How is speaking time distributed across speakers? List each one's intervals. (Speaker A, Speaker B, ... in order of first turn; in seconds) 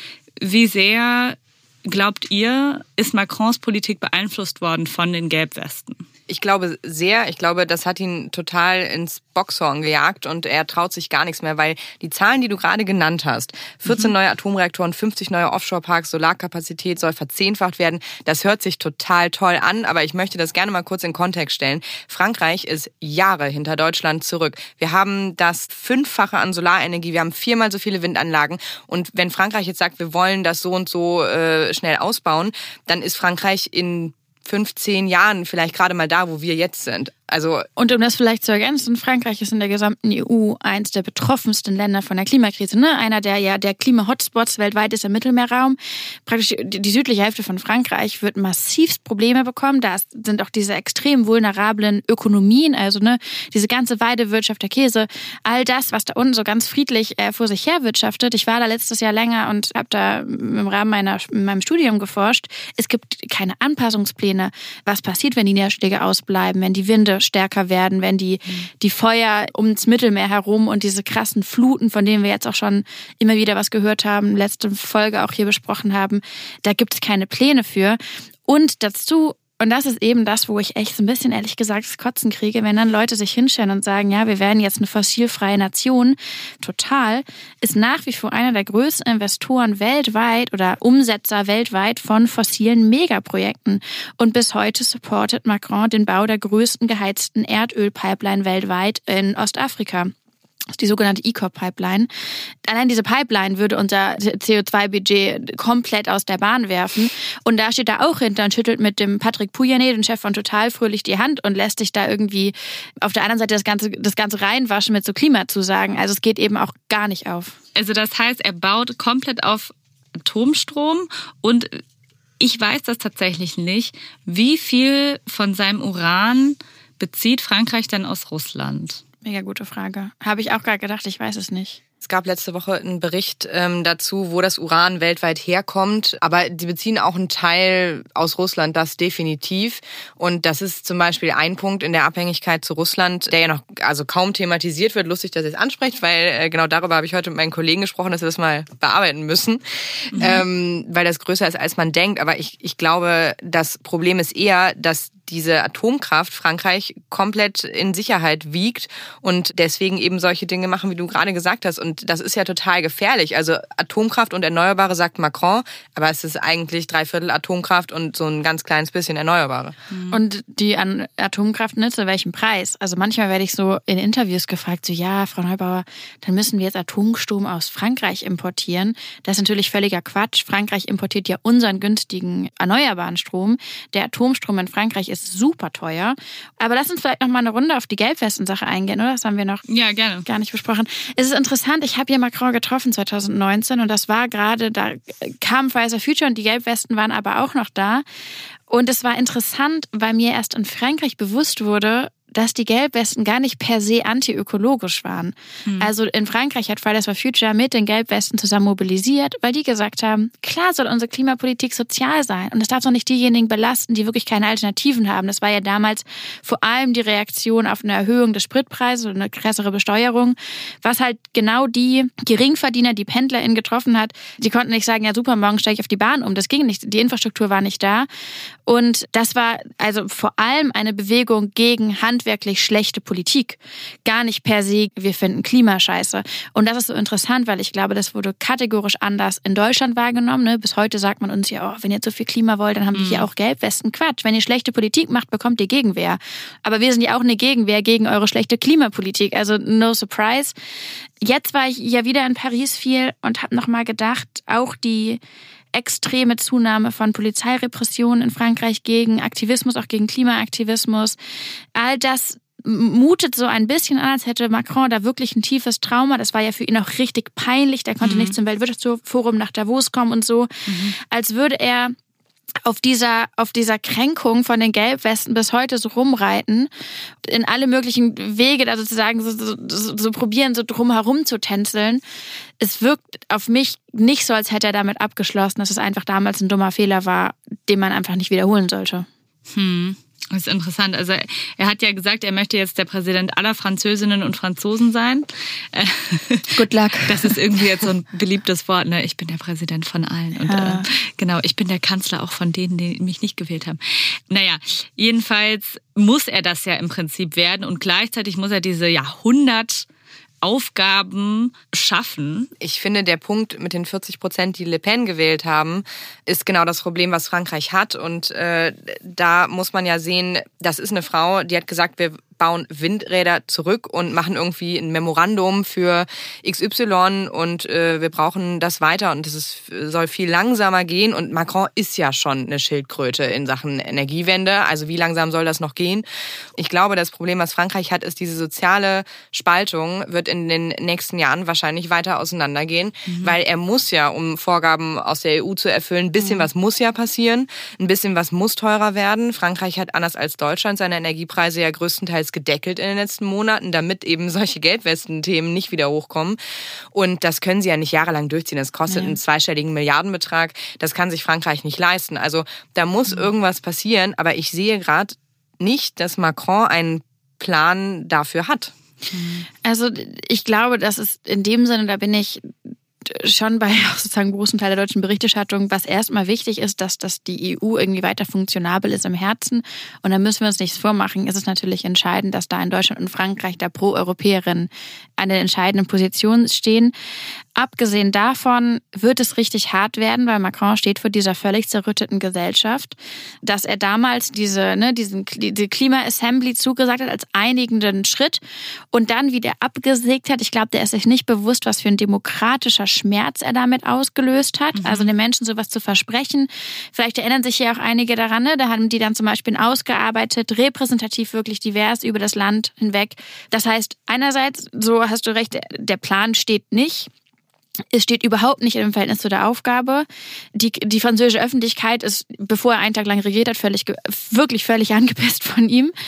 Speaker A: 0.4-6.0, 117.8-121.8, 122.4-129.0, 150.1-150.4, 169.9-170.2, 189.7-190.2, 242.9-243.3, 268.0-268.4, 270.7-270.9, 289.5-309.9, 310.4-312.5, 343.1-343.4, 369.1-369.5, 404.7-405.1
Speaker B: 6.3-37.7, 132.0-169.7, 312.6-336.0, 336.6-356.4, 356.9-368.7
Speaker C: 37.8-100.1, 100.7-102.1, 102.6-117.5, 129.2-131.8, 170.1-189.7, 190.2-198.0, 198.7-228.1, 228.7-250.5, 251.2-255.2, 255.7-261.2, 261.7-270.5, 271.0-271.9, 272.6-276.7, 277.2-282.0, 282.6-289.1, 296.6-297.8, 300.5-300.9, 358.9-359.1, 369.6-372.5, 373.0-386.9, 387.6-398.4, 398.9-417.1, 417.9-425.9